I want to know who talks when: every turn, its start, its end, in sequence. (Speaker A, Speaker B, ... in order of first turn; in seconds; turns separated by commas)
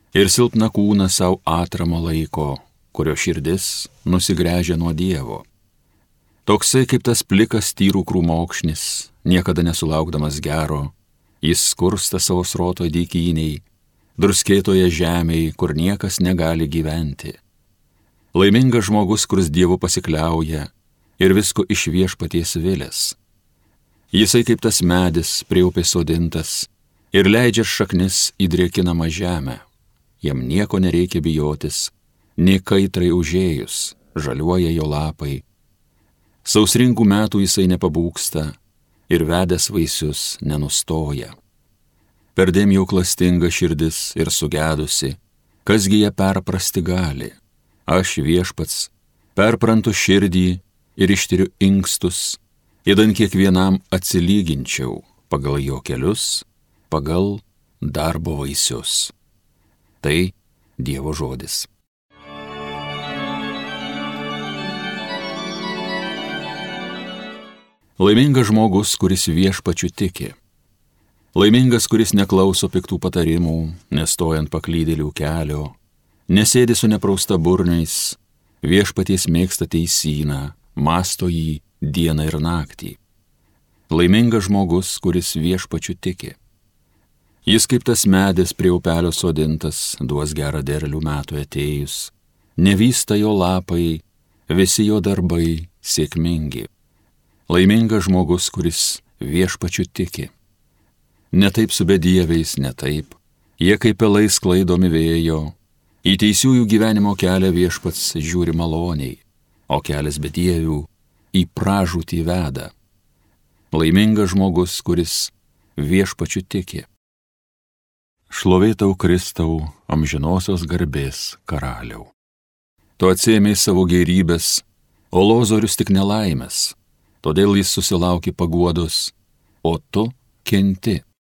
Speaker A: 0.1-5.5, Speaker A: 6.5-13.6, Speaker A: 14.2-17.4, Speaker A: 18.3-23.2, Speaker A: 24.1-29.6, Speaker A: 30.2-35.5, Speaker A: 36.4-38.6, Speaker A: 39.1-41.4, Speaker A: 42.4-59.1, Speaker A: 60.0-61.7, Speaker A: 68.0-70.4, Speaker A: 71.3-75.8, Speaker A: 76.3-83.0, Speaker A: 83.9-86.4, Speaker A: 87.5-96.7, Speaker A: 97.5-100.3, Speaker A: 101.3-112.7, Speaker A: 113.7-116.9, Speaker A: 118.3-122.1, Speaker A: 123.0-131.0